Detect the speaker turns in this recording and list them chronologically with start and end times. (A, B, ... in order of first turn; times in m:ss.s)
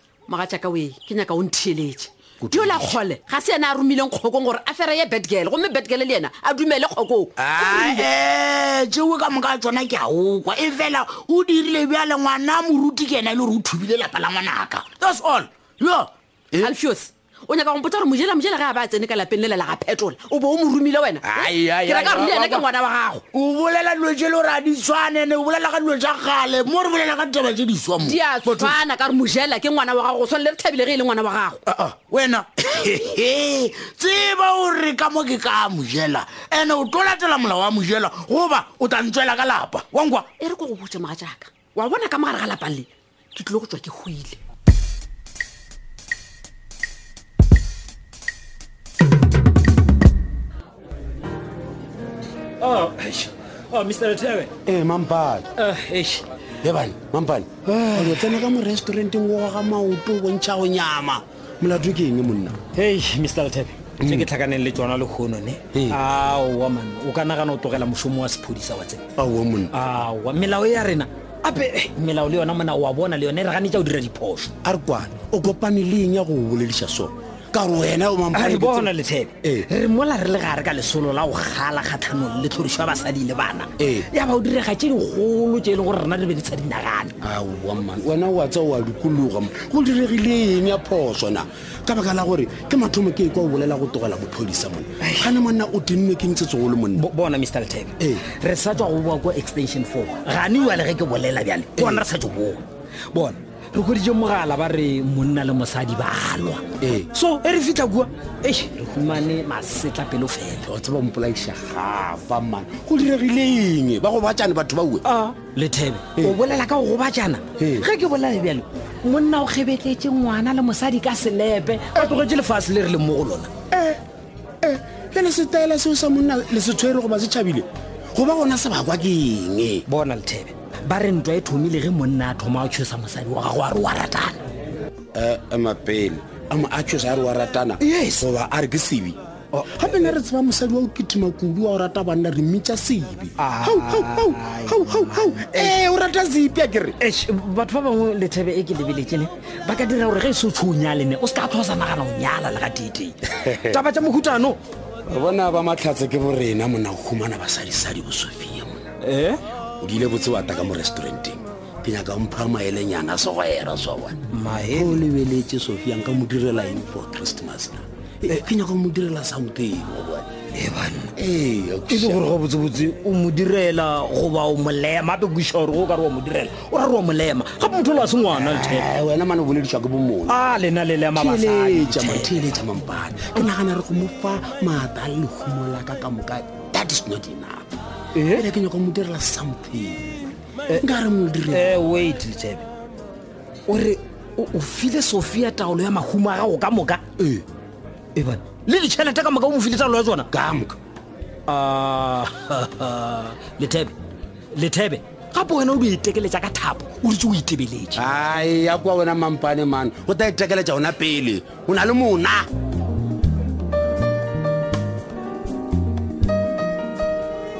0:00.3-0:08.0 A
0:07.4-0:16.7 B
0:16.6-0:23.2 A
0:21.2-0:22.7 B
0:23.3-0:28.8 B
0:28.0-0:31.6 A
0:31.6-0:40.3 B
0:40.4-0:44.4 A
0:52.6-0:54.5 C
0:54.6-0:55.5 D
0:55.6-0:56.2 C
0:56.6-1:02.6 D
0:57.7-0:58.2 C
1:02.7-1:09.0 C
1:04.0-1:04.3 D
1:05.7-1:06.0 D
1:09.2-1:09.7 D
1:09.7-1:14.5 C
1:14.6-1:18.9 D
1:18.3-1:27.1 C
1:19.4-1:19.7 D
1:23.8-1:24.1 D
1:27.2-1:37.0 D
1:35.0-1:35.3 C
1:36.9-1:50.7 C
1:38.0-1:38.2 D
1:41.8-1:42.1 D
1:46.8-1:47.1 D
1:50.6-1:55.0 D
1:55.0-2:03.5 C
1:57.6-1:57.9 D
2:03.7-2:04.0 D
2:04.6-2:09.8 D
2:09.9-2:14.4 C
2:15.1-2:19.2 D
2:17.8-2:18.3 C
2:19.5-2:20.1 C
2:19.7-2:27.0 D
2:23.4-2:25.8 C
2:27.0-2:34.6 C
2:33.3-2:33.8 D
2:35.1-2:38.8 D
2:39.0-2:39.4 C
2:39.8-2:44.2 D
2:44.3-2:45.0 C
2:44.7-2:50.3 D
2:50.5-2:51.1 C
2:51.2-2:52.3 D
2:51.9-2:58.9 C
2:58.3-3:00.4 D
3:00.3-3:02.6 C
3:01.1-3:07.7 D
3:08.1-3:08.4 C
3:08.3-3:10.1 D
3:10.8-3:11.8 D
3:11.5-3:12.6 C
3:13.7-3:17.0 C
3:17.2-3:17.4 D
3:18.1-3:20.3 C
3:20.3-3:20.8 D
3:21.5-3:23.9 C
3:24.5-3:28.0 C
3:27.9-3:32.5 D